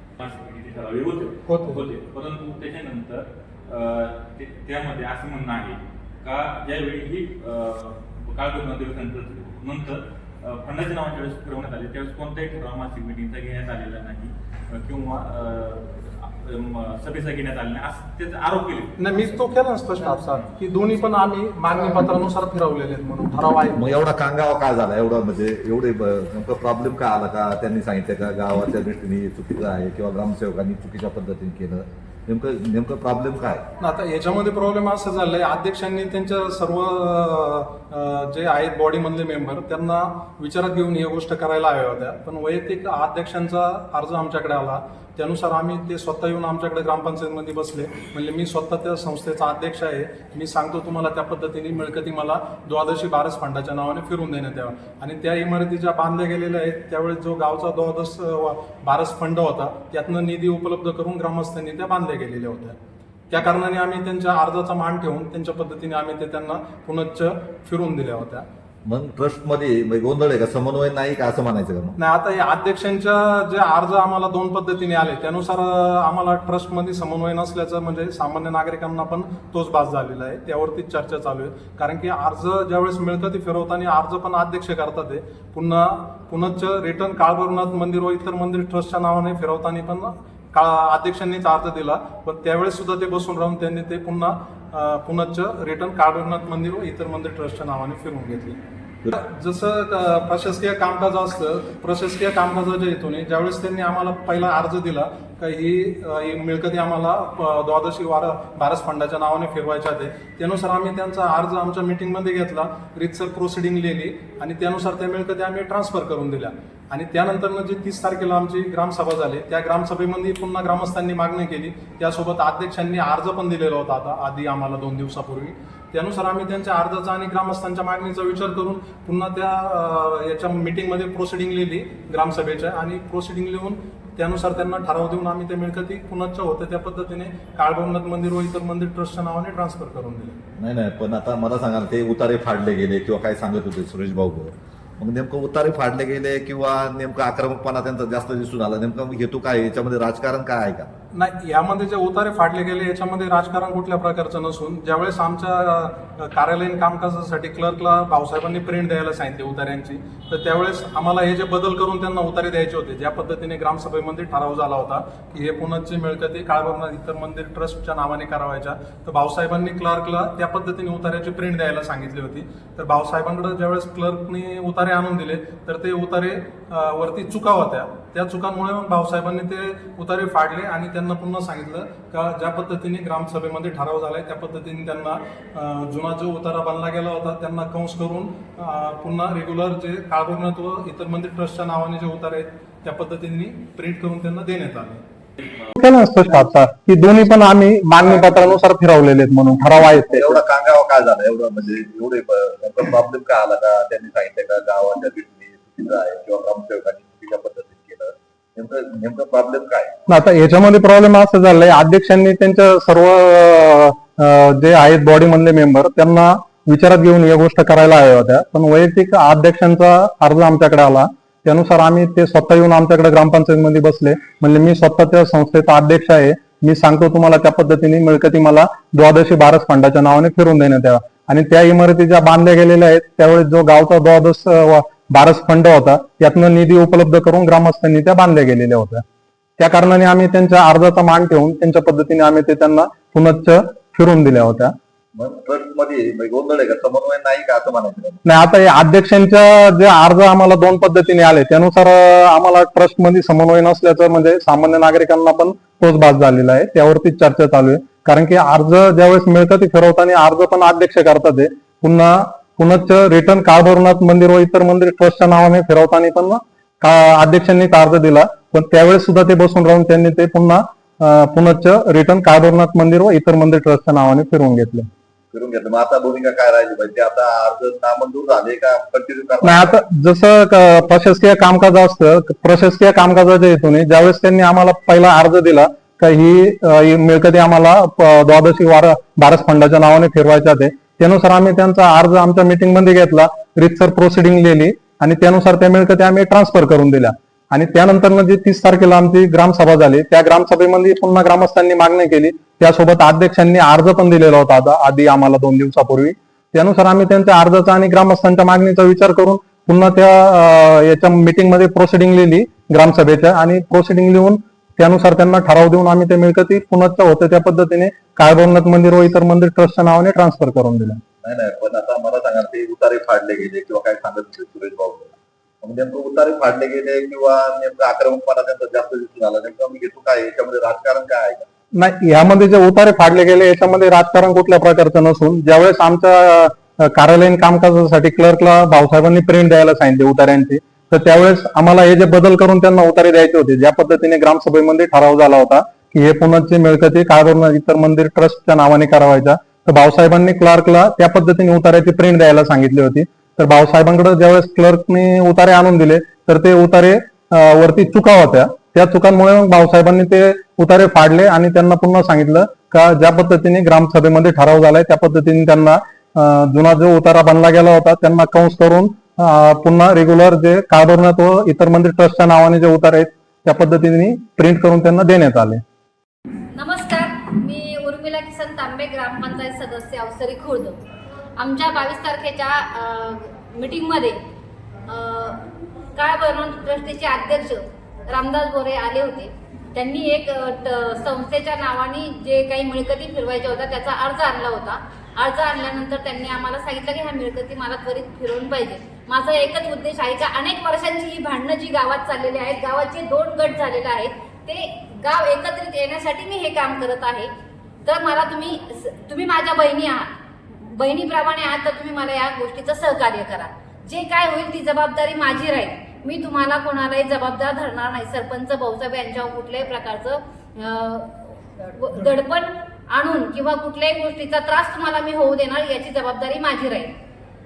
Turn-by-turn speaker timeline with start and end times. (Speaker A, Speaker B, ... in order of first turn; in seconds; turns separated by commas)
Speaker A: 0.2-19.5, Speaker B: 1.4-1.8, Speaker B: 19.0-23.8, Speaker A: 20.1-20.6, Speaker C: 23.8-33.6, Speaker B: 33.8-62.8, Speaker B: 63.3-68.5, Speaker C: 68.8-72.0, Speaker B: 72.0-98.6, Speaker B: 99.1-140.4, Speaker C: 140.6-150.9, Speaker B: 151.1-195.0, Speaker A: 195.4-195.7, Speaker D: 195.8-200.4, Speaker C: 198.0-198.5, Speaker C: 199.9-210.0, Speaker D: 210.1-239.0, Speaker D: 239.6-244.7, Speaker C: 245.1-248.2, Speaker D: 248.2-274.9, Speaker C: 275.3-279.8, Speaker D: 279.4-321.0, Speaker C: 321.2-331.5, Speaker D: 331.8-375.6, Speaker E: 376.5-380.8, Speaker E: 381.4-384.2, Speaker E: 384.9-407.3, Speaker E: 407.8-426.9